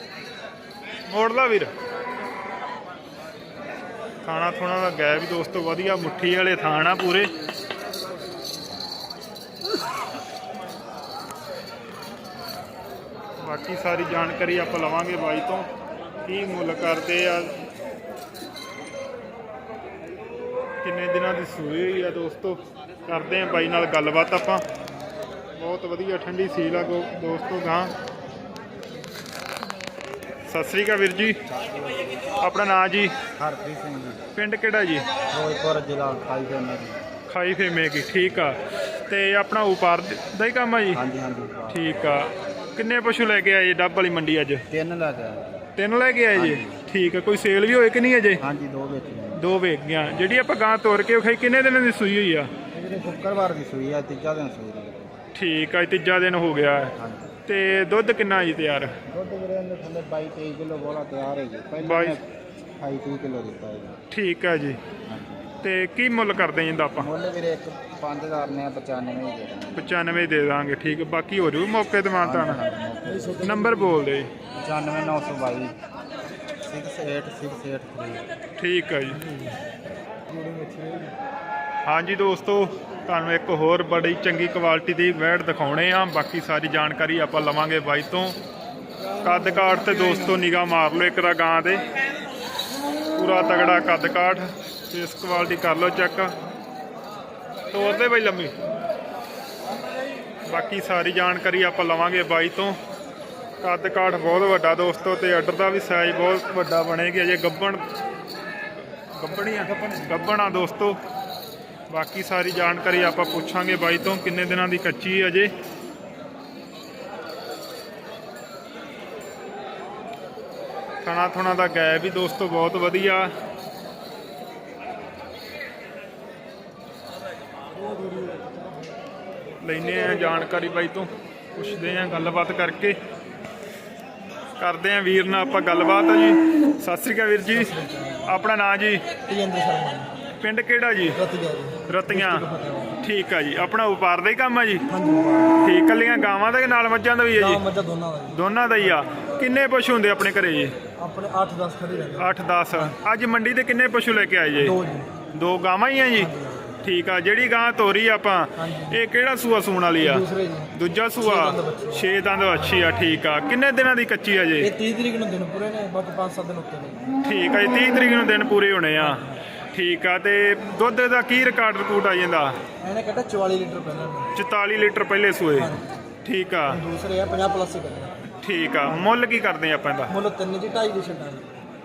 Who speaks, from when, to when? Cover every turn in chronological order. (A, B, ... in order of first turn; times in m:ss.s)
0:01.1-0:01.7 A
0:04.2-0:07.3 A
0:13.4-0:15.7 A
0:16.3-0:17.5 A
0:20.8-0:24.6 A
0:25.6-0:27.9 A
0:30.5-0:31.4 A
0:31.7-0:32.0 B
0:32.4-0:33.1 A
0:33.4-0:34.2 B
0:34.4-0:35.0 A
0:35.3-0:37.0 B
0:37.3-0:41.0 A
0:40.9-0:42.3 B
0:41.7-0:44.6 A
0:44.7-0:45.8 B
0:45.8-0:48.4 A
0:46.4-0:46.8 B
0:48.4-0:49.4 B
0:49.4-0:52.5 A
0:52.7-0:55.1 B
0:55.4-0:56.9 A
0:57.0-0:57.3 B
0:57.5-0:58.9 A
0:59.1-1:02.3 B
1:01.8-1:02.2 A
1:02.8-1:04.0 B
1:04.1-1:04.8 A
1:05.1-1:05.5 B
1:05.6-1:07.1 A
1:07.0-1:09.9 B
1:09.8-1:12.6 A
1:12.2-1:13.5 B
1:13.4-1:14.3 A
1:14.6-1:15.8 B
1:16.6-1:18.2 B
1:18.6-1:19.2 A
1:20.3-1:21.1 C
1:21.8-1:28.4 A
1:29.2-1:31.8 A
1:29.6-1:30.2 C
1:33.2-1:36.3 A
1:37.7-1:38.5 A
1:40.5-1:42.8 A
1:43.6-1:47.8 A
1:49.2-1:51.0 A
1:51.9-1:55.5 A
2:01.0-2:03.3 A
2:09.6-2:13.0 A
2:14.6-2:17.7 A
2:17.5-2:18.3 C
2:18.3-2:19.0 A
2:19.3-2:20.1 C
2:20.4-2:21.2 A
2:21.1-2:23.0 C
2:21.9-2:22.4 A
2:23.0-2:24.9 A
2:24.9-2:25.7 C
2:25.6-2:27.6 A
2:27.3-2:28.4 C
2:28.3-2:30.7 A
2:31.0-2:32.9 C
2:32.2-2:34.8 A
2:34.6-2:35.1 C
2:35.3-2:36.3 A
2:36.2-2:36.8 C
2:36.8-2:44.7 A
2:38.6-2:39.0 C
2:40.0-2:42.1 C
2:44.6-2:47.0 C
2:47.2-2:52.5 A
2:49.0-2:49.4 C
2:52.8-2:54.3 C
2:54.4-2:55.7 A
2:55.5-2:55.8 C
2:56.2-2:56.8 A
2:56.7-2:58.2 C
2:58.4-3:00.1 A
3:00.1-3:01.5 C